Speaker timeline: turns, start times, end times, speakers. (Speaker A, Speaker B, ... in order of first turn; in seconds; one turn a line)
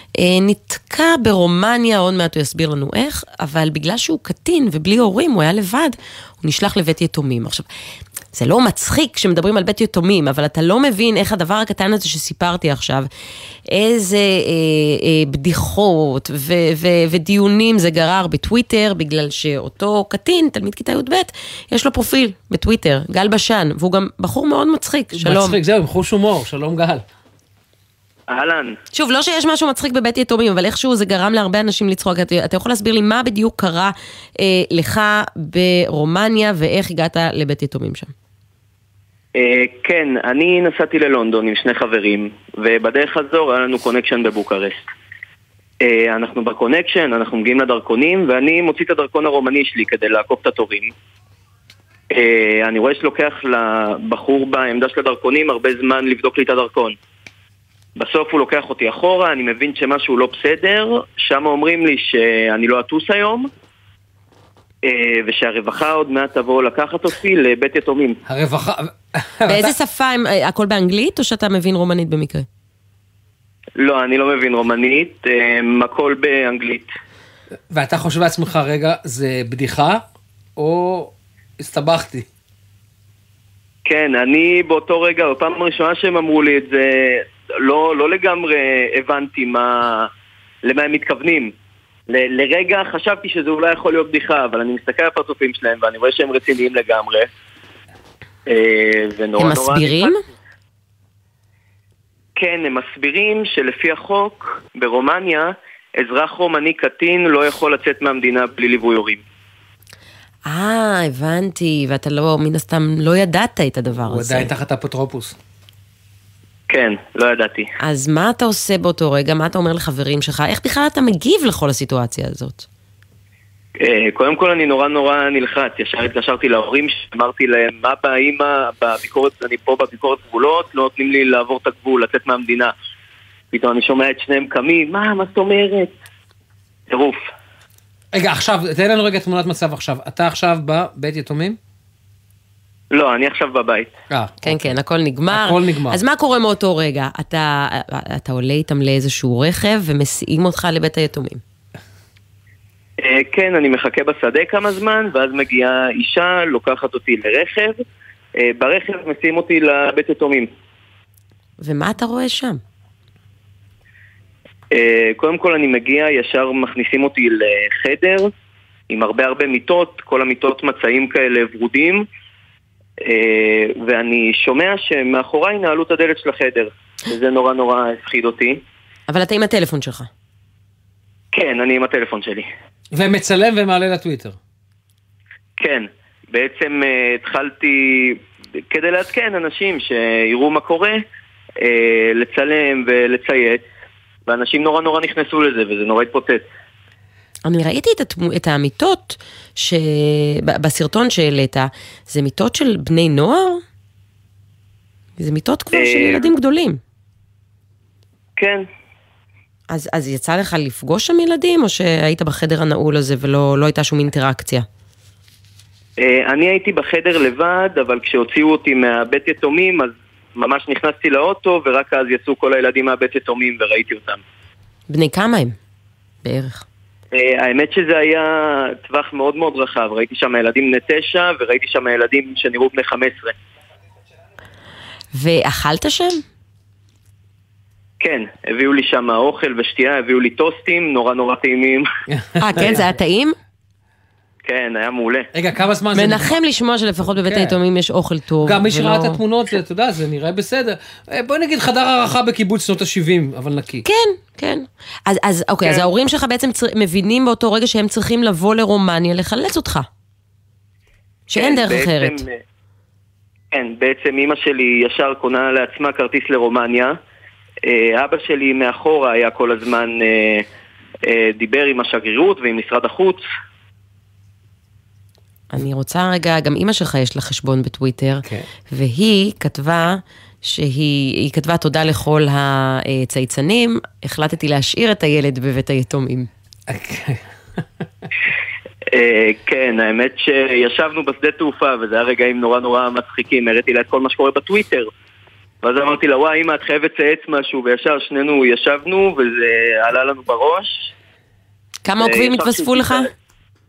Speaker A: 0.2-7.7
Speaker A: 8.3-13.1
Speaker A: 13.7-25.6
Speaker B: 25.1-27.0
Speaker C: 28.3-28.8
Speaker A: 28.9-38.1
Speaker C: 39.4-44.9
Speaker C: 45.8-50.9
Speaker C: 52.1-56.9
Speaker C: 58.0-63.5
Speaker C: 64.8-68.2
Speaker B: 68.2-69.7
Speaker A: 69.5-72.5
Speaker C: 73.8-76.9
Speaker B: 77.7-80.0
Speaker B: 80.6-82.2
Speaker C: 83.8-90.1
Speaker C: 90.6-91.5
Speaker C: 92.1-97.3
Speaker C: 98.5-100.1
Speaker A: 99.4-100.2
Speaker C: 102.4-109.2
Speaker A: 110.5-114.5
Speaker B: 114.1-115.3
Speaker C: 116.7-117.7
Speaker A: 117.8-122.7
Speaker C: 123.8-132.7
Speaker C: 133.5-135.9
Speaker C: 136.9-137.3
Speaker B: 138.1-141.6
Speaker C: 142.9-143.9
Speaker B: 144.1-144.6
Speaker A: 144.4-151.4
Speaker B: 145.3-146.0
Speaker C: 153.0-157.8
Speaker C: 158.4-160.5
Speaker A: 161.6-162.6
Speaker C: 164.7-168.3
Speaker C: 168.9-172.0
Speaker C: 173.0-178.6
Speaker A: 179.1-180.1
Speaker C: 181.3-182.5
Speaker B: 182.9-184.3
Speaker C: 185.6-191.0
Speaker C: 191.6-193.6
Speaker C: 194.3-196.4
Speaker A: 197.4-203.6
Speaker A: 205.2-206.8
Speaker C: 205.7-206.2
Speaker C: 208.4-208.6
Speaker A: 209.7-214.7
Speaker C: 216.0-224.2
Speaker A: 224.9-225.6
Speaker A: 226.2-226.6
Speaker C: 227.1-233.3
Speaker A: 235.1-236.2
Speaker C: 238.0-241.9
Speaker B: 242.1-242.8
Speaker A: 242.4-243.3
Speaker C: 244.4-245.3
Speaker B: 245.3-246.4
Speaker A: 245.9-249.2
Speaker B: 247.2-247.6
Speaker B: 248.4-253.8
Speaker A: 253.8-259.9
Speaker A: 261.3-262.2
Speaker C: 261.3-262.4
Speaker C: 263.5-266.9
Speaker C: 267.7-270.4
Speaker C: 271.1-273.2
Speaker A: 275.5-286.3
Speaker B: 286.7-287.2
Speaker C: 288.9-294.9
Speaker C: 295.6-300.9
Speaker A: 301.8-303.1
Speaker C: 302.0-303.1